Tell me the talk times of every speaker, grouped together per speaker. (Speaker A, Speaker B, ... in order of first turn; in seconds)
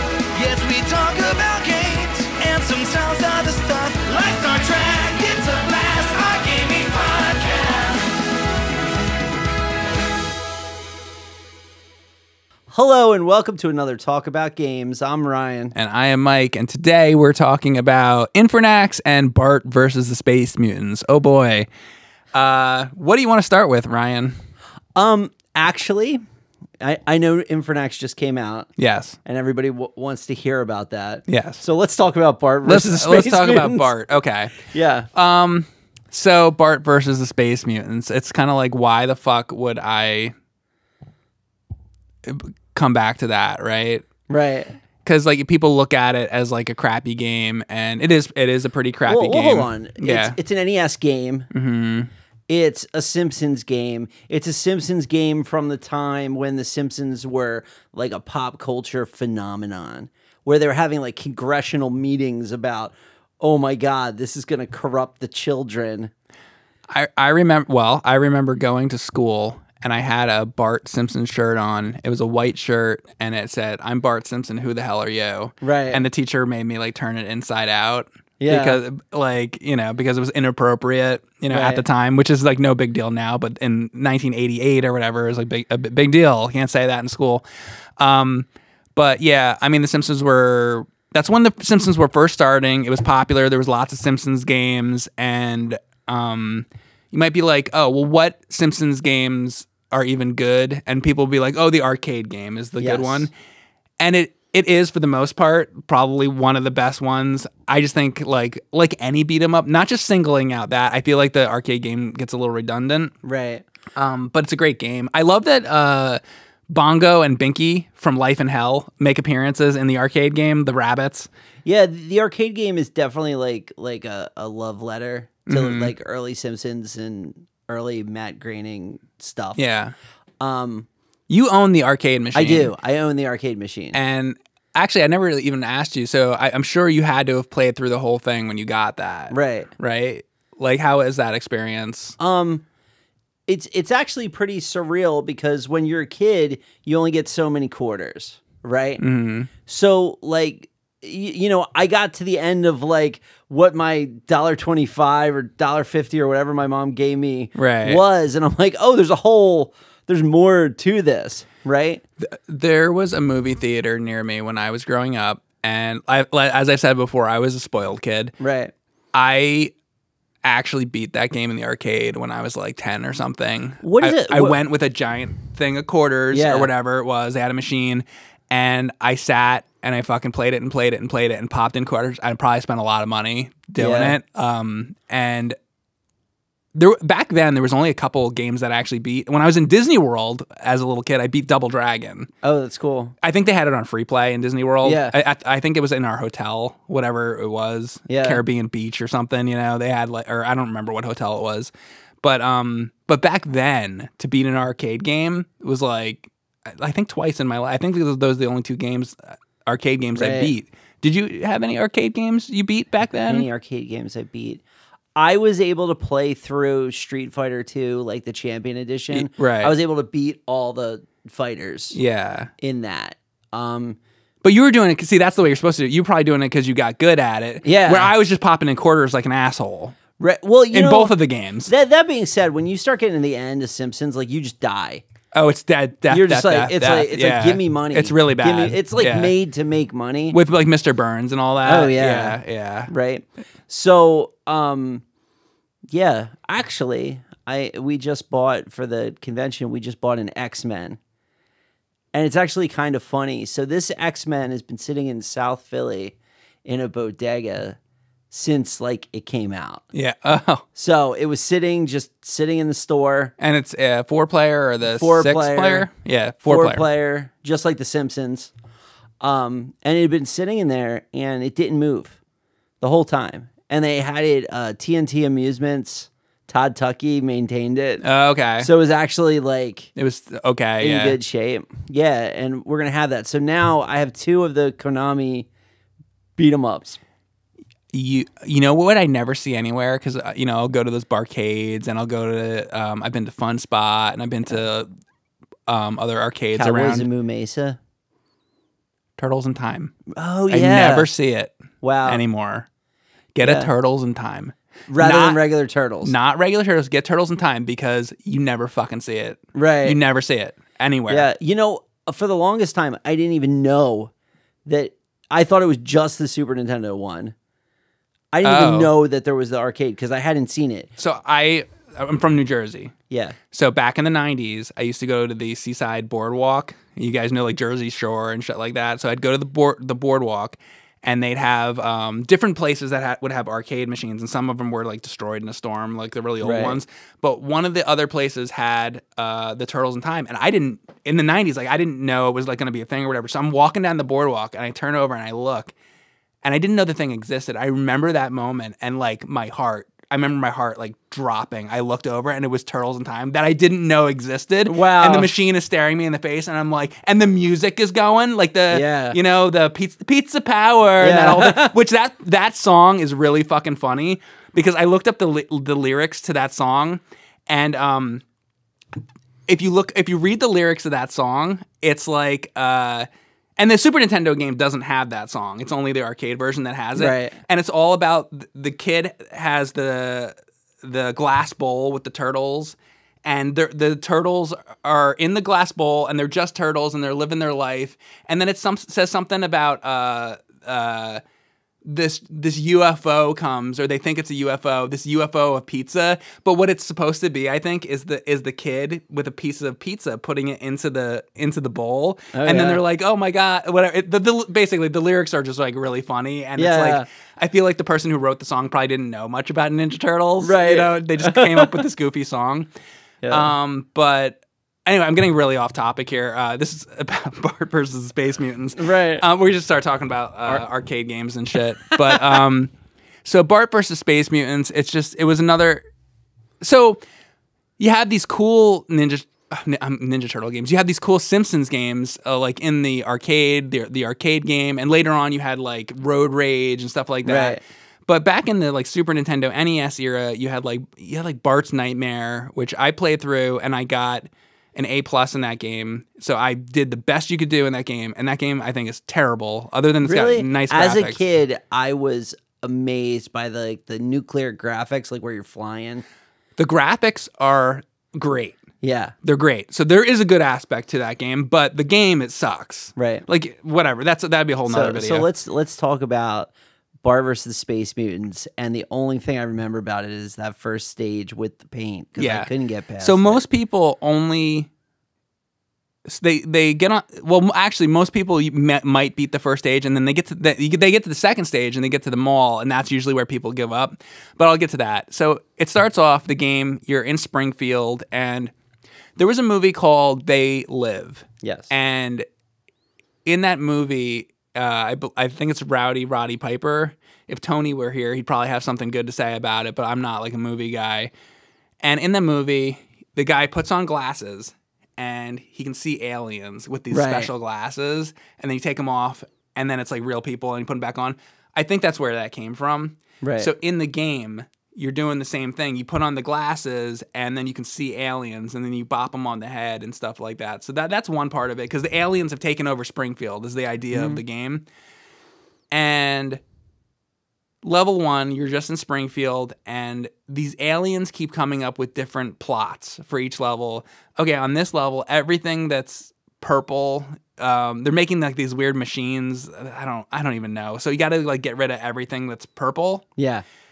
Speaker A: 0.5-4.7, 5.7-7.3
Speaker B: 12.7-15.7, 25.0-26.2, 26.8-28.7, 29.2-33.9, 34.6-35.1, 44.3-44.7, 49.1-51.5, 52.5-66.1, 75.6-76.0, 78.4-78.8, 81.5-81.8, 102.8-103.3, 113.2-113.6, 121.6-129.6, 130.4-130.9, 132.3-134.0, 139.3-139.7, 142.2-142.7, 143.5-149.0, 149.7-162.0, 168.4-168.7, 173.8-174.6, 176.3-176.7, 183.8-184.2, 192.4-193.2, 194.8-195.2, 198.1-198.4, 210.2-210.5, 213.1-214.6, 215.2-222.0, 222.6-224.0, 227.6-228.1, 230.2-231.1, 231.7-235.0, 236.1-240.4, 241.6-245.0, 245.9-251.0, 252.1-257.8, 258.3-259.8, 260.8-263.3, 264.9-265.9, 266.4-268.5, 269.2-272.2, 272.8-278.0, 278.6-279.9, 280.8-285.5, 286.4-287.0, 296.6-297.8, 300.1-301.1, 301.8-302.2, 303.4-303.7, 304.9-306.1, 309.6-310.0, 311.1-314.1, 314.7-317.4, 318.3-320.9, 323.1-323.4, 336.4-336.8, 354.7-355.3, 358.7-359.2, 361.0-361.7, 376.9-377.4, 402.3-402.8, 406.6-407.1, 410.4-411.8, 413.2-413.5, 418.8-419.2, 422.0-422.4, 437.2-437.6, 450.0-456.0, 458.8-459.1, 462.9-463.2, 464.7-466.5, 467.0-473.4, 491.4-491.7, 506.9-507.3, 513.2-513.5, 523.9-524.2, 543.2-543.4
Speaker C: 15.7-21.7, 22.3-24.4, 28.8-29.2, 31.3-31.6, 32.6-40.3, 42.2-44.0, 45.0-50.4, 51.5-52.1, 66.9-87.4, 88.0-103.3, 104.0-113.1, 114.0-121.3, 125.5-125.9, 129.6-129.9, 131.3-132.7, 133.9-142.2, 149.0-149.5, 157.6-158.0, 162.2-168.3, 169.1-169.7, 170.4-185.6, 186.8-192.3, 193.2-201.7, 202.2-213.5, 219.1-219.7, 221.9-222.5, 224.4-230.0, 230.7-231.7, 235.3-239.3, 240.3-242.9, 259.9-260.6, 263.4-266.9, 278.0-278.7, 279.9-281.2, 287.9-294.9, 295.7-297.1, 299.2-299.9, 300.5-301.5, 302.1-302.7, 303.4-305.4, 306.0-311.3, 318.4-318.9, 321.0-322.9, 323.5-345.7, 346.4-368.2, 369.5-391.2, 391.9-412.7, 413.3-422.7, 423.2-425.8, 426.6-427.0, 427.8-451.2, 456.6-458.6, 459.2-465.3, 472.2-474.7, 476.1-488.5, 489.2-492.2, 493.2-501.1, 501.8-524.6, 525.7-526.4, 527.6-543.1